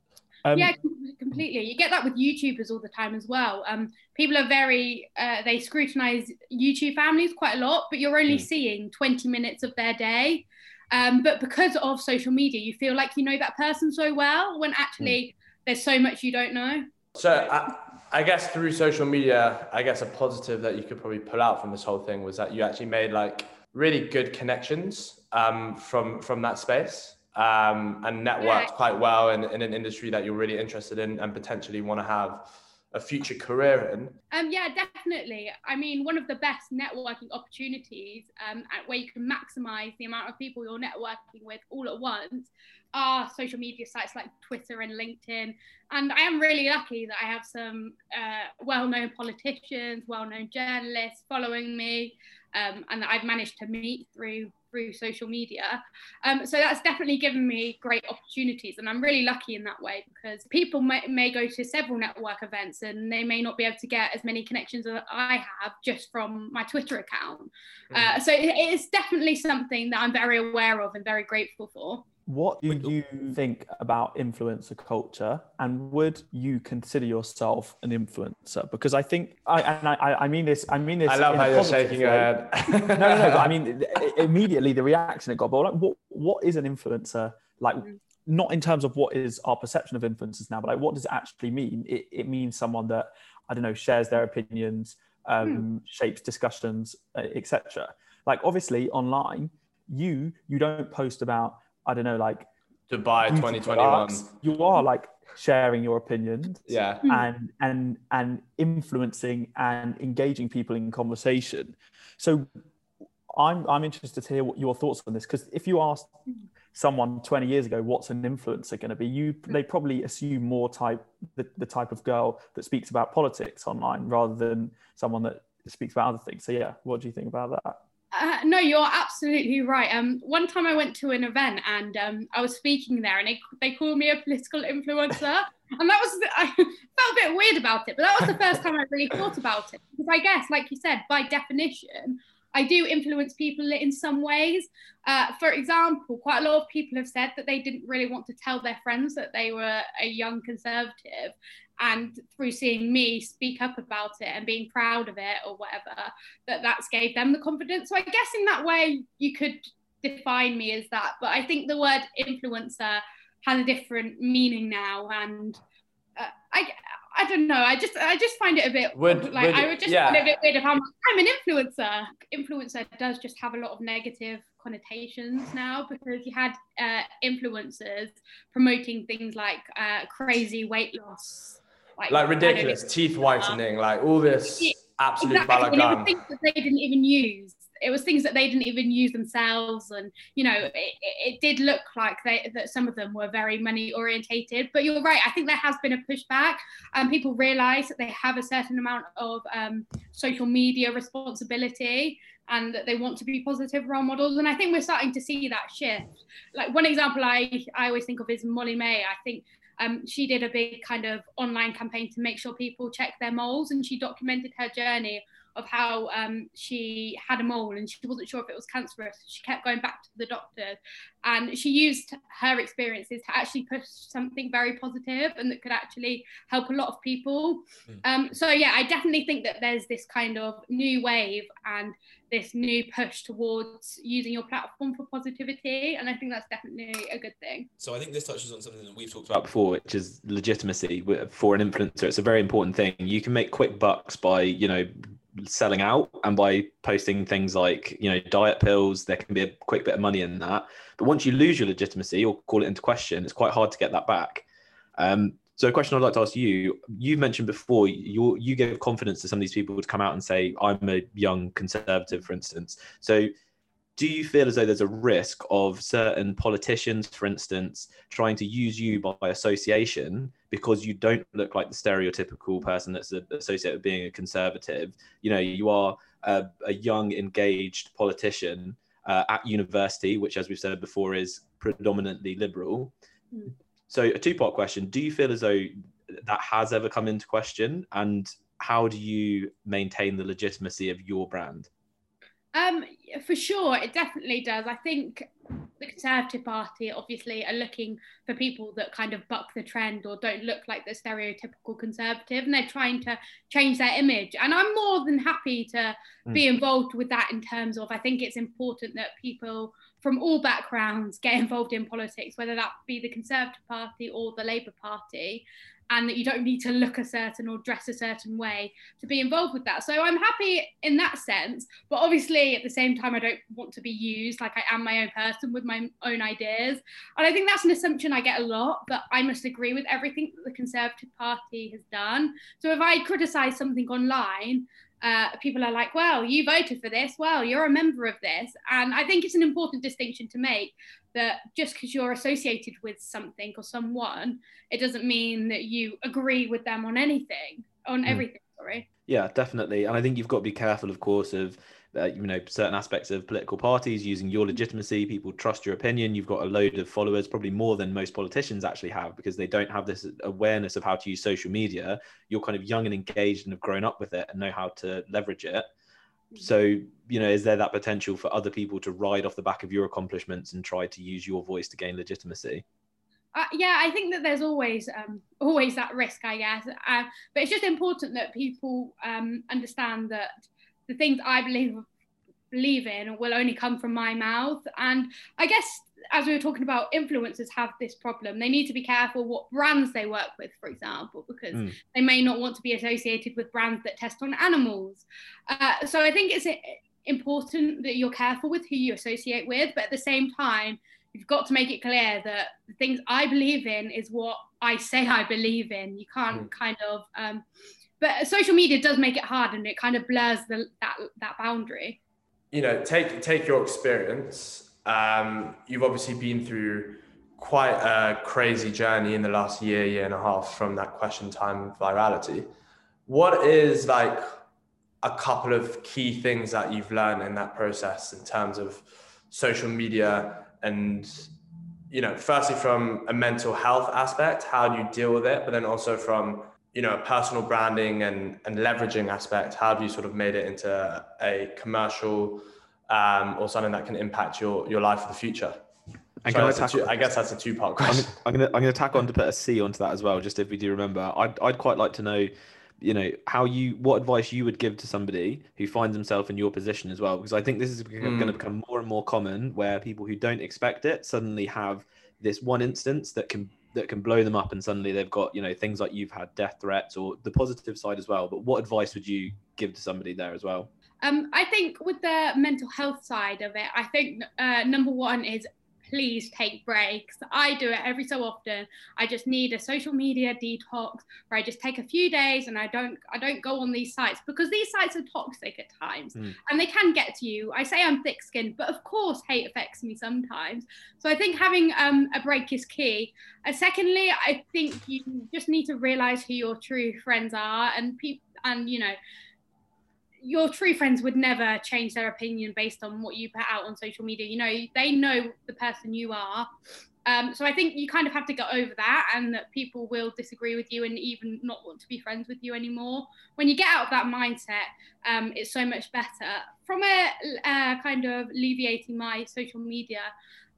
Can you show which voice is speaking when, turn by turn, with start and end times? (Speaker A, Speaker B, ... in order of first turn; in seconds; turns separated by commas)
Speaker A: 0.4-0.7, Speaker B: 0.5-16.9, Speaker C: 17.1-34.1, Speaker B: 28.4-28.7, Speaker B: 34.3-72.0, Speaker A: 72.2-102.5, Speaker C: 81.0-83.5, Speaker C: 102.9-104.3, Speaker A: 103.2-112.5, Speaker C: 106.7-107.0, Speaker A: 113.3-116.1, Speaker A: 116.7-127.8, Speaker B: 128.1-165.6, Speaker B: 166.2-182.8, Speaker C: 168.9-170.3, Speaker C: 182.1-186.1, Speaker B: 184.6-237.7, Speaker D: 237.8-254.4, Speaker D: 255.0-263.3, Speaker D: 264.0-282.9, Speaker D: 283.9-291.7, Speaker B: 292.5-348.9, Speaker D: 349.1-365.7, Speaker D: 366.4-372.6, Speaker B: 373.3-381.9, Speaker B: 382.5-407.4, Speaker B: 408.0-412.0, Speaker C: 412.5-422.5, Speaker C: 423.1-424.2, Speaker C: 425.0-431.3, Speaker C: 431.9-445.6, Speaker D: 446.2-447.1, Speaker C: 446.3-448.1, Speaker D: 447.9-470.7, Speaker C: 458.0-458.4, Speaker B: 471.0-498.9, Speaker B: 500.2-506.5, Speaker B: 507.1-520.1